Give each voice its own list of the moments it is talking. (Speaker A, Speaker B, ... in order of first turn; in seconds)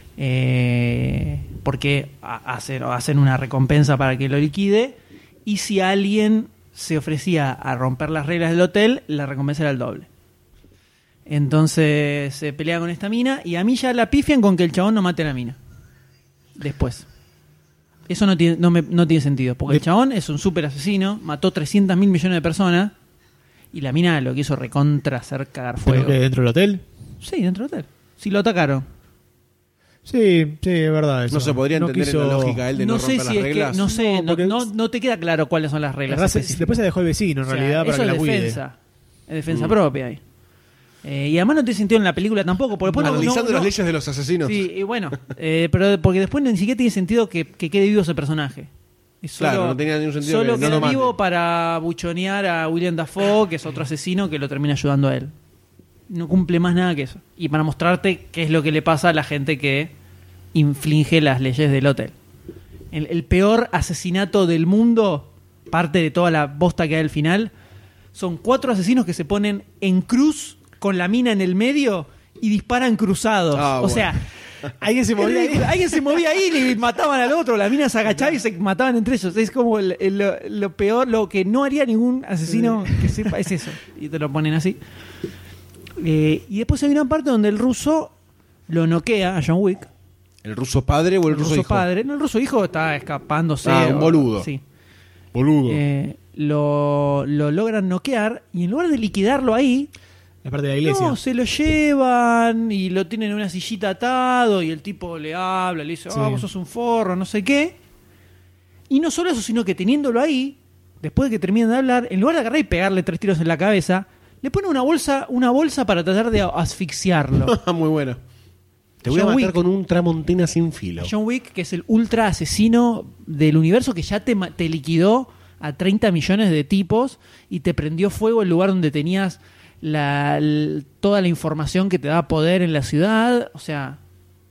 Speaker A: 0.2-10.1, 11.3-15.6, 16.6-17.1, 18.1-22.9, 23.7-26.2, 27.2-28.9, 32.8-36.8, 37.5-38.8, 39.3-40.2, 41.0-43.7, 44.4-48.7, 49.2-55.3, 56.1-59.9, 60.5-62.1, 62.9-67.5, 68.1-74.2, 75.2-84.8, 86.0-88.1, 88.7-89.9, 91.3-94.6, 95.7-99.9, 100.8-107.8, 108.9-117.5, 119.0-119.6, 121.0-134.0
Speaker B: 25.8-26.8, 30.0-32.6, 33.8-34.6, 36.1-38.6, 42.9-43.3, 50.6-51.0, 74.8-75.8, 82.5-83.3, 100.4-101.2, 106.1-106.5
Speaker C: 31.3-33.9, 43.0-44.7, 49.4-51.1, 73.5-74.7, 90.4-91.9, 93.6-94.5, 95.3-95.8, 117.5-118.2, 119.0-121.1